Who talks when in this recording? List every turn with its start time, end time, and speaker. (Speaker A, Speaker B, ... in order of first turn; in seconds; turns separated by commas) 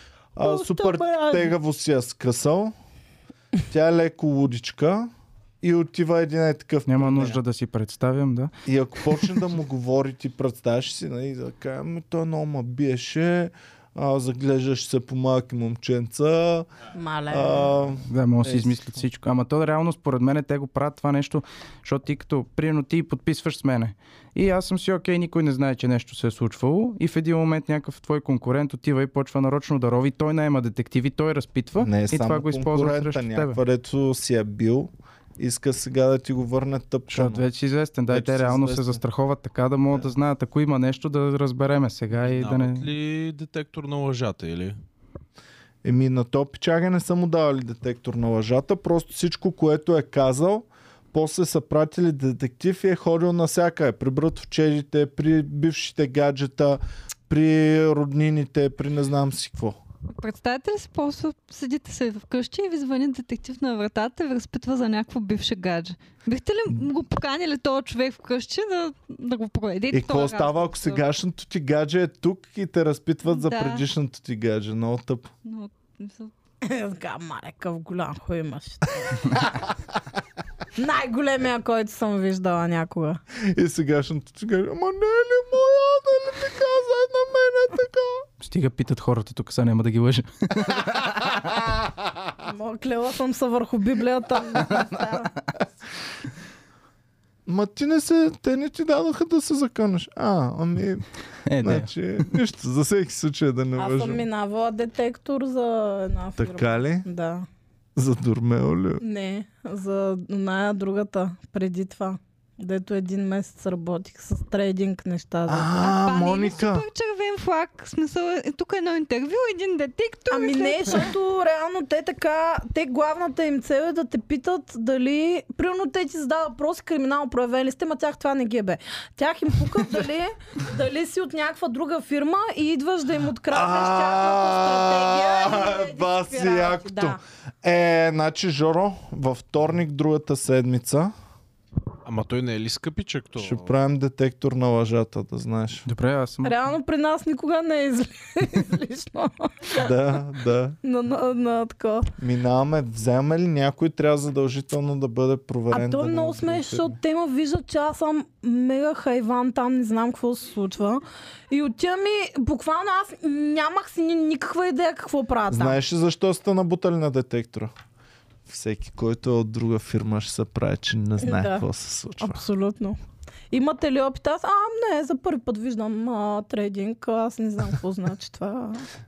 Speaker A: 0.3-2.7, Speaker B: 0.4-1.5, Speaker A: 3.7-5.1, Speaker A: 5.6-7.4, Speaker C: 6.9-8.5, Speaker A: 8.7-16.7, Speaker B: 16.9-17.7, Speaker A: 17.3-18.9, Speaker C: 18.1-33.6, Speaker A: 31.8-37.4, Speaker C: 37.1-42.9, Speaker A: 38.1-39.0, Speaker D: 42.1-44.8, Speaker A: 45.8-59.8, Speaker E: 60.1-71.0, Speaker A: 69.9-75.3, Speaker E: 73.2-73.8, Speaker E: 75.4-76.3, Speaker B: 76.6-79.2, Speaker B: 80.8-83.2, Speaker A: 83.4-88.2, Speaker C: 88.4-91.3, Speaker B: 92.4-95.3, Speaker A: 97.5-101.1, Speaker C: 101.5-102.3, Speaker A: 101.6-104.2, Speaker B: 103.8-107.5, Speaker A: 106.4-107.0, Speaker A: 108.0-109.0, Speaker B: 109.0-115.8, Speaker A: 115.5-116.8, Speaker E: 115.8-121.1, Speaker B: 120.3-137.2, Speaker A: 133.5-141.1, Speaker D: 142.0-143.7, Speaker A: 143.3-145.8, Speaker C: 145.9-146.6, Speaker B: 146.4-149.9, Speaker A: 149.7-150.8, Speaker B: 150.8-152.1, Speaker A: 152.2-157.0, Speaker B: 155.7-165.8, Speaker A: 165.5-167.7, Speaker A: 168.5-172.4, Speaker B: 171.2-171.6, Speaker B: 172.2-173.0, Speaker B: 173.5-178.8